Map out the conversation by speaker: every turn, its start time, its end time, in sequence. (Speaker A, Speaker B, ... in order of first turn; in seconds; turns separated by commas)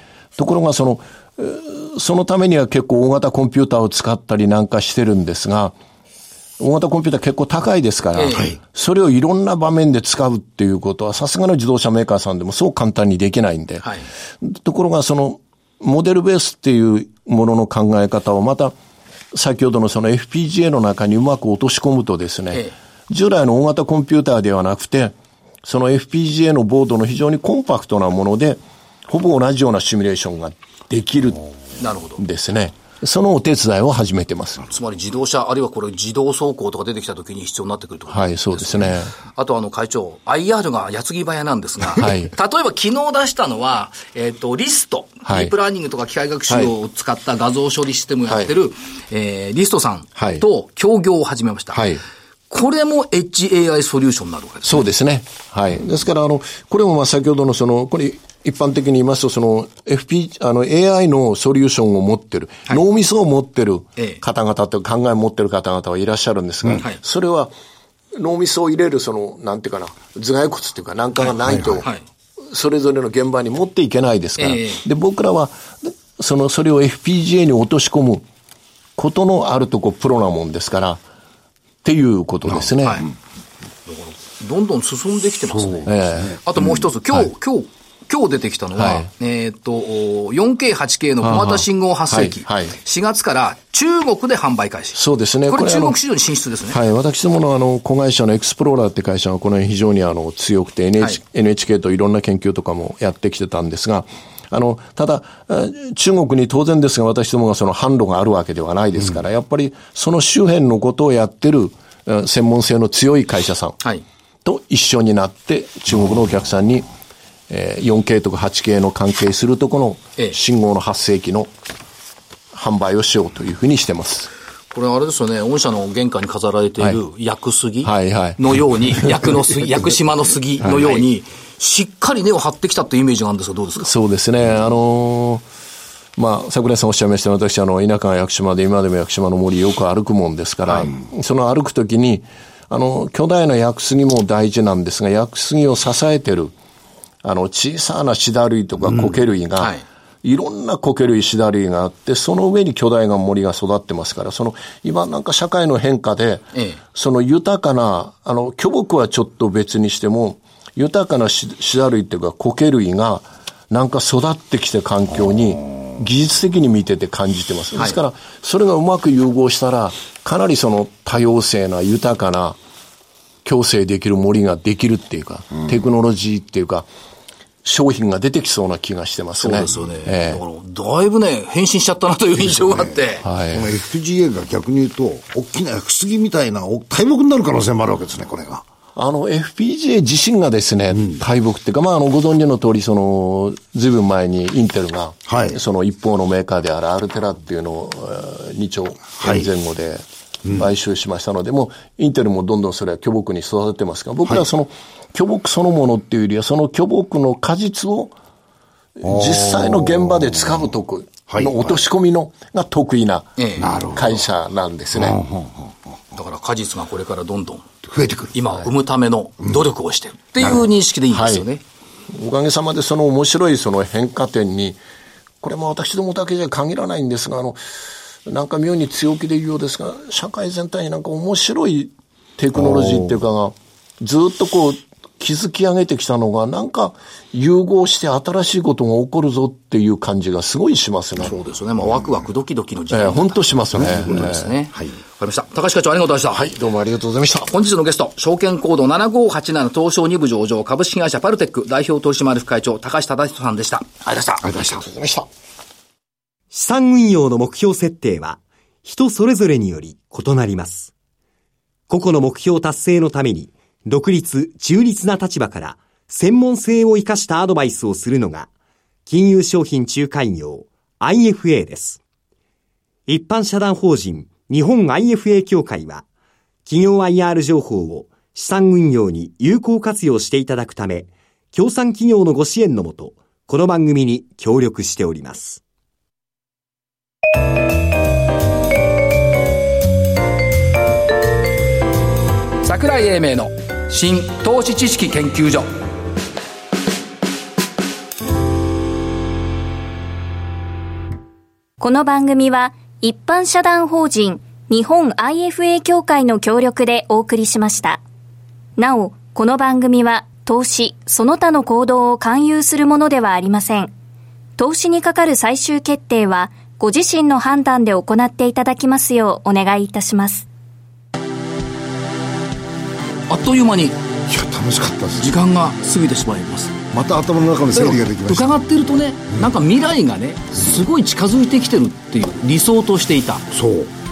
Speaker A: 0.4-5.7, Speaker A: 6.6-13.8, Speaker B: 8.2-8.5, Speaker A: 14.4-18.8, Speaker A: 19.3-31.4, Speaker B: 31.8-32.2, Speaker A: 32.2-34.6, Speaker B: 34.7-51.9, Speaker A: 38.1-39.1, Speaker A: 42.0-42.3, Speaker A: 45.2-45.5, Speaker A: 50.1-50.4, Speaker A: 51.7-52.0, Speaker B: 52.5-54.8, Speaker A: 54.6-67.5, Speaker A: 68.1-71.9, Speaker C: 71.5-71.8, Speaker A: 72.5-78.2, Speaker B: 74.4-74.8, Speaker A: 79.0-81.0, Speaker A: 81.8-83.0, Speaker B: 82.6-83.1, Speaker B: 83.8-96.8, Speaker C: 85.5-86.4, Speaker A: 85.8-86.4, Speaker A: 88.7-89.1, Speaker A: 91.2-92.7, Speaker A: 94.9-96.0, Speaker A: 96.7-113.8, Speaker A: 114.4-116.9, Speaker A: 117.5-121.5, Speaker A: 122.5-124.3, Speaker B: 124.7-133.9, Speaker A: 127.8-129.4, Speaker A: 130.6-131.0, Speaker A: 133.8-135.4, Speaker A: 136.2-146.5, Speaker A: 147.2-172.6, Speaker B: 156.5-156.8, Speaker A: 173.4-176.9, Speaker A: 177.6-180.4, Speaker B: 179.4-183.2, Speaker A: 183.2-183.7, Speaker C: 183.5-188.6, Speaker A: 188.9-208.1, Speaker C: 195.3-195.6, Speaker A: 209.0-213.3, Speaker C: 209.0-210.3, Speaker C: 211.3-211.8, Speaker B: 213.4-213.7, Speaker C: 213.6-214.2, Speaker A: 213.9-215.2, Speaker C: 214.9-215.8, Speaker B: 216.1-217.7, Speaker C: 217.9-218.3, Speaker B: 218.3-221.6, Speaker A: 221.1-221.4, Speaker A: 222.1-224.8, Speaker A: 225.4-227.6, Speaker A: 228.2-241.3, Speaker B: 241.2-246.4, Speaker A: 242.9-244.5, Speaker C: 243.7-244.9, Speaker A: 246.3-247.5, Speaker B: 247.5-254.4, Speaker C: 254.4-254.9, Speaker A: 254.8-255.3, Speaker D: 256.5-260.9, Speaker D: 261.9-268.5, Speaker D: 269.1-272.0, Speaker D: 273.1-276.0, Speaker D: 276.6-285.6, Speaker B: 292.6-295.7, Speaker E: 301.8-308.0, Speaker E: 308.8-313.9, Speaker E: 314.6-320.4, Speaker B: 323.3-324.0, Speaker C: 324.3-325.3, Speaker B: 325.2-326.8, Speaker C: 326.9-328.5, Speaker B: 327.7-333.5, Speaker C: 333.5-333.9